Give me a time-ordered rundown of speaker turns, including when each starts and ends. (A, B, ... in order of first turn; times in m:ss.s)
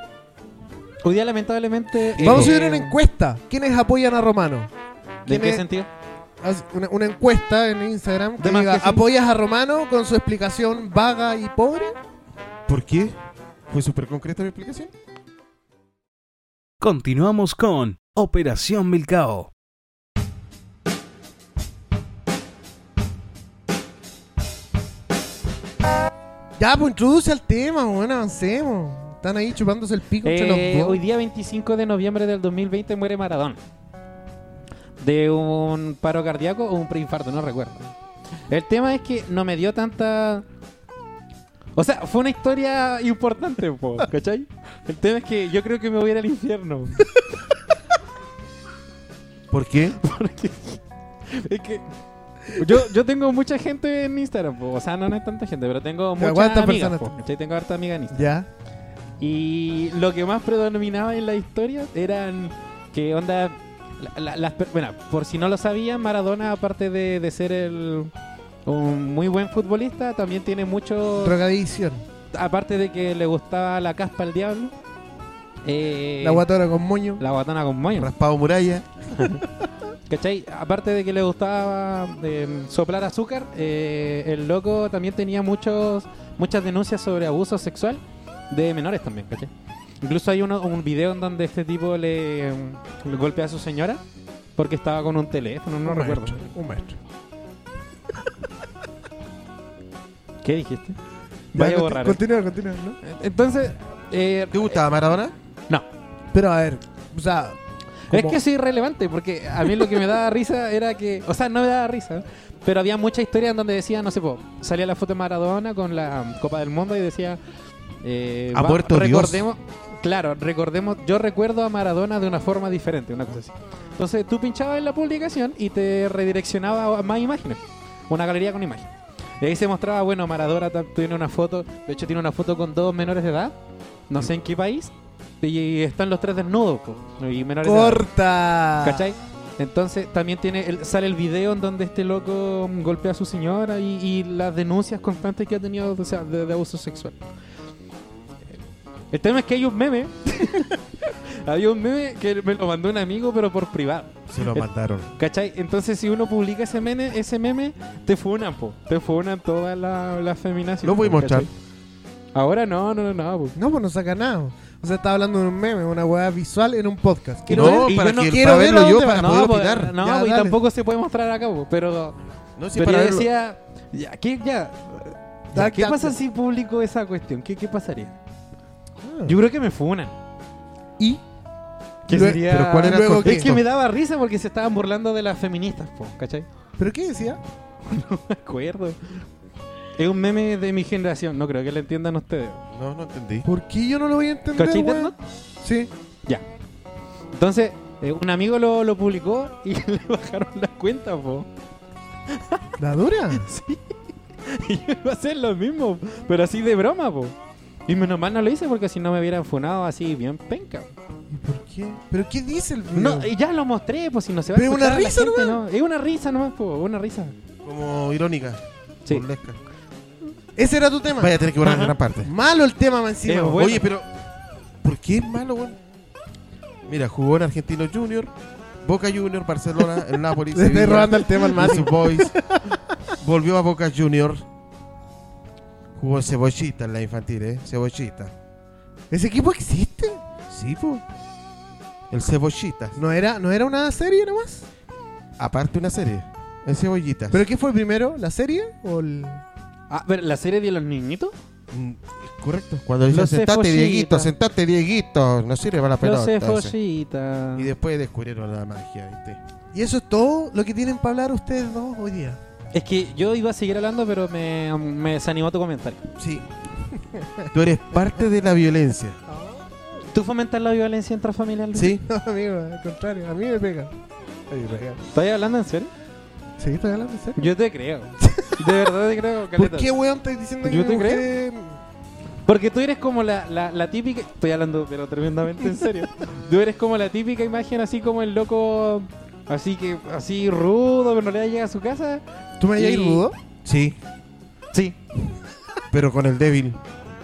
0:01.0-0:03.0 A
0:02.2-0:02.5 B
0:02.2-0:04.7 C
0:05.3-0:05.9 A
0:05.3-0:05.6 C
0:06.4-0:12.0 C
0:08.4-0:09.0 A
0:12.7-0:13.2 B
0:13.7-0:14.9 B
0:16.8-0:19.5 D
0:26.6-0:31.0 C
0:30.2-0:33.6 A
0:35.0-0:37.9 A
0:38.5-0:40.4 A
0:41.8-0:47.1 A
0:49.5-0:50.0 B
0:50.0-0:51.8 A
0:52.5-0:58.3 A
0:56.2-0:57.1 C
0:58.1-0:58.5 C
0:59.2-1:08.1 A
1:08.7-1:11.4 A
1:11.2-1:12.0 C
1:12.3-1:14.7 A
1:15.6-1:16.5 A
1:16.2-1:17.2 C
1:17.2-1:18.1 A
1:17.9-1:18.9 B
1:20.1-1:29.5 A
1:30.0-1:34.0 A
1:34.6-1:36.4 A
1:35.8-1:37.0 C
1:40.4-1:41.0 A
1:41.5-1:42.2 A
1:41.6-1:43.0 C
1:43.0-1:44.8 A
1:44.5-1:45.4 B
1:46.3-1:47.6 C
1:48.1-1:48.4 C
1:48.1-1:57.4 A
1:58.0-2:13.6 A
1:58.5-1:59.4 B
2:14.1-2:18.0 A
2:17.6-2:19.0 C
2:18.8-2:27.2 A
2:29.1-2:41.5 A
2:34.3-2:35.1 B
2:40.8-2:41.5 B
2:42.4-2:43.6 A
2:43.6-2:49.3 C
2:47.5-2:48.4 A
2:47.5-2:49.9 B
2:49.0-2:52.2 A
2:50.0-2:50.6 C
2:52.6-2:53.3 B
2:52.7-2:58.2 A
2:55.5-2:56.2 C
2:59.0-2:59.4 C
2:59.2-3:00.1 A
3:02.1-3:06.5 A
3:02.1-3:03.6 C
3:02.4-3:03.6 B
3:06.8-3:07.4 C
3:07.9-3:09.2 A
3:10.0-3:12.6 A
3:12.7-3:13.5 B
3:13.5-3:15.9 C
3:14.6-3:15.2 A
3:17.3-3:21.5 A
3:22.3-3:22.7 A
3:22.8-3:23.5 C
3:23.4-3:27.4 A
3:27.9-3:30.9 A
3:31.3-3:33.3 C
3:32.9-3:37.4 A
3:34.5-3:35.6 C
3:37.6-3:39.6 B
3:40.6-3:41.4 C
3:41.2-3:42.3 B
3:41.6-3:41.9 A
3:42.2-3:43.7 C
3:43.3-3:43.8 A
3:43.6-3:44.1 B
3:44.8-3:45.8 B
3:46.9-3:48.3 B
3:48.8-3:52.3 B
3:50.5-3:52.8 C
3:53.2-3:54.4 B
3:56.0-3:58.3 B
3:59.1-4:00.2 C
4:00.5-4:01.0 B
4:02.1-4:03.0 B
4:03.0-4:04.7 C
4:05.4-4:07.4 B
4:07.3-4:09.4 C
4:09.9-4:11.4 A
4:11.7-4:16.7 B
4:13.1-4:14.3 A
4:16.0-4:17.7 A
4:17.6-4:19.4 B
4:19.7-4:22.4 C
4:22.7-4:26.0 A
4:26.2-4:26.4 B
4:27.1-4:27.5 C
4:27.5-4:29.2 B
4:30.1-4:32.0 A
4:31.7-4:32.0 B
4:32.0-4:33.9 C
4:34.5-4:35.0 C
4:35.1-4:35.9 A
4:36.6-4:37.4 C
4:37.4-4:39.9 A
4:38.2-4:38.7 C
4:39.6-4:41.8 C
4:40.6-4:41.2 A
4:42.5-4:52.2 A
4:52.6-4:53.4 C
4:52.8-4:53.2 A
4:53.6-4:54.0 B
4:54.7-4:55.0 A
4:55.9-4:56.8 B